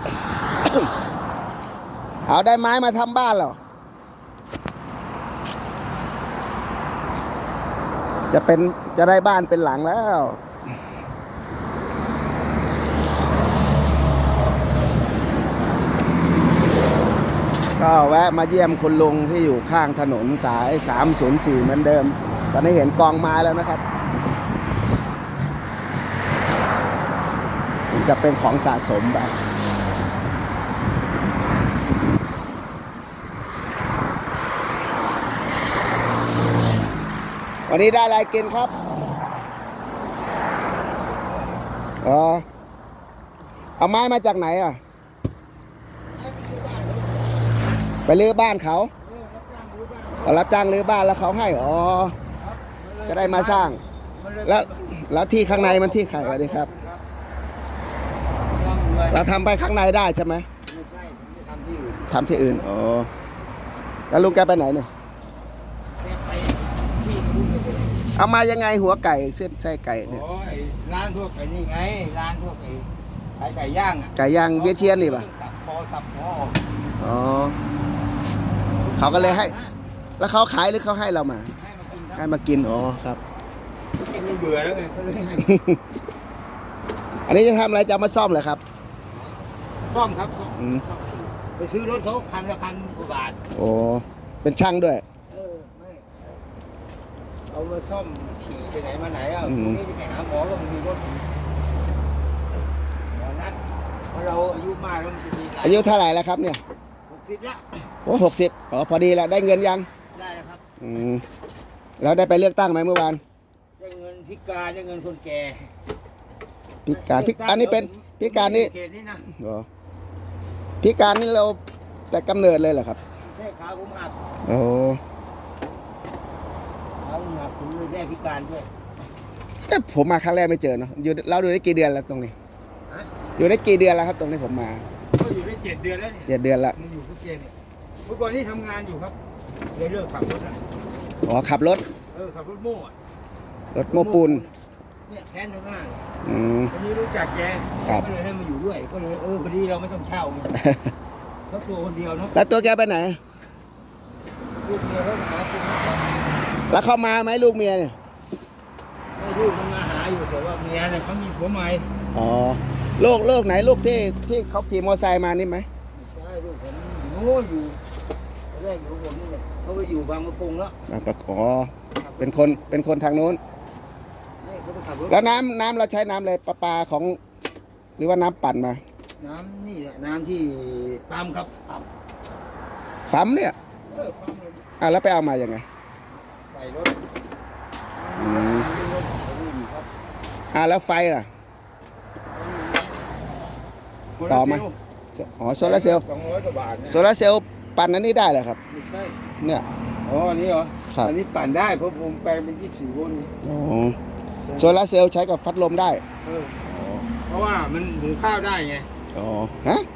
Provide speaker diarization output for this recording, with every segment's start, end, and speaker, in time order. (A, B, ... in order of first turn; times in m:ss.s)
0:02.3-0:03.6 A
0:08.3-0:10.4 A
0:17.8-0:23.8 A
0:27.9-0:29.4 A
0:37.7-0:38.7 A
0:41.2-0:41.5 B
0:42.0-0:42.4 A
0:43.8-0:44.8 A
0:46.1-0:47.2 B
0:48.1-0:48.9 A
0:49.0-0:50.4 B
0:50.2-0:52.2 A
0:52.4-0:57.0 B
0:53.1-0:53.8 A
0:54.4-0:56.7 A
0:58.5-0:59.3 B
0:59.1-1:00.5 A
1:00.7-1:02.6 B
1:02.1-1:03.1 A
1:04.1-1:04.9 A
1:06.0-1:08.0 B
1:08.2-1:10.2 A
1:10.1-1:16.6 B
1:14.2-1:15.3 A
1:17.0-1:17.6 A
1:18.8-1:19.7 B
1:19.0-1:19.5 A
1:20.2-1:21.5 A
1:21.6-1:22.3 B
1:22.2-1:23.2 A
1:24.0-1:25.6 B
1:25.5-1:25.8 A
1:27.3-1:28.6 A
1:29.9-1:33.4 B
1:30.6-1:30.8 A
1:33.5-1:35.0 A
1:35.3-1:36.3 B
1:37.5-1:41.3 B
1:39.4-1:39.8 A
1:43.1-1:43.6 B
1:44.1-1:46.0 B
1:45.6-1:46.6 A
1:47.1-1:47.9 B
1:48.1-1:49.9 A
1:50.1-1:50.6 B
1:50.8-1:51.2 A
1:52.0-1:53.2 A
1:53.8-1:55.7 B
1:56.9-1:58.7 A
1:56.9-1:59.3 B
1:59.3-1:59.7 A
2:00.8-2:01.6 A
2:02.1-2:03.0 A
2:03.2-2:04.2 B
2:04.5-2:05.0 A
2:07.0-2:08.7 B
2:09.7-2:12.3 A
2:13.4-2:14.8 A
2:15.2-2:19.2 B
2:16.3-2:16.8 A
2:19.7-2:20.6 B
2:21.2-2:21.8 A
2:22.1-2:23.0 B
2:23.7-2:24.4 A
2:23.9-2:24.5 B
2:25.1-2:26.0 B
2:26.2-2:26.7 A
2:26.7-2:30.6 B
2:30.6-2:30.9 A
2:31.5-2:32.7 B
2:32.4-2:33.2 A
2:34.6-2:36.1 B
2:36.7-2:38.0 A
2:39.2-2:41.9 B
2:42.1-2:45.7 A
2:45.9-2:47.8 B
2:48.5-2:50.8 B
2:50.9-2:53.4 A
2:52.0-2:52.7 B
2:54.4-2:55.4 B
2:55.1-2:57.2 A
2:58.0-2:58.8 A
2:59.2-3:01.8 B
3:03.1-3:03.6 A
3:03.9-3:04.7 B
3:04.8-3:05.6 A
3:06.1-3:07.0 B
3:08.0-3:09.9 B
3:08.2-3:08.7 A
3:10.5-3:11.3 A
3:12.3-3:13.0 B
3:14.2-3:14.8 B
3:14.3-3:16.0 A
3:15.6-3:17.1 B
3:16.9-3:18.6 A
3:18.7-3:19.2 B
3:20.0-3:23.3 B
3:23.4-3:24.0 A
3:24.5-3:24.8 B
3:24.6-3:26.0 A
3:26.2-3:26.6 B
3:26.6-3:27.1 A
3:27.3-3:28.9 B
3:29.2-3:29.9 A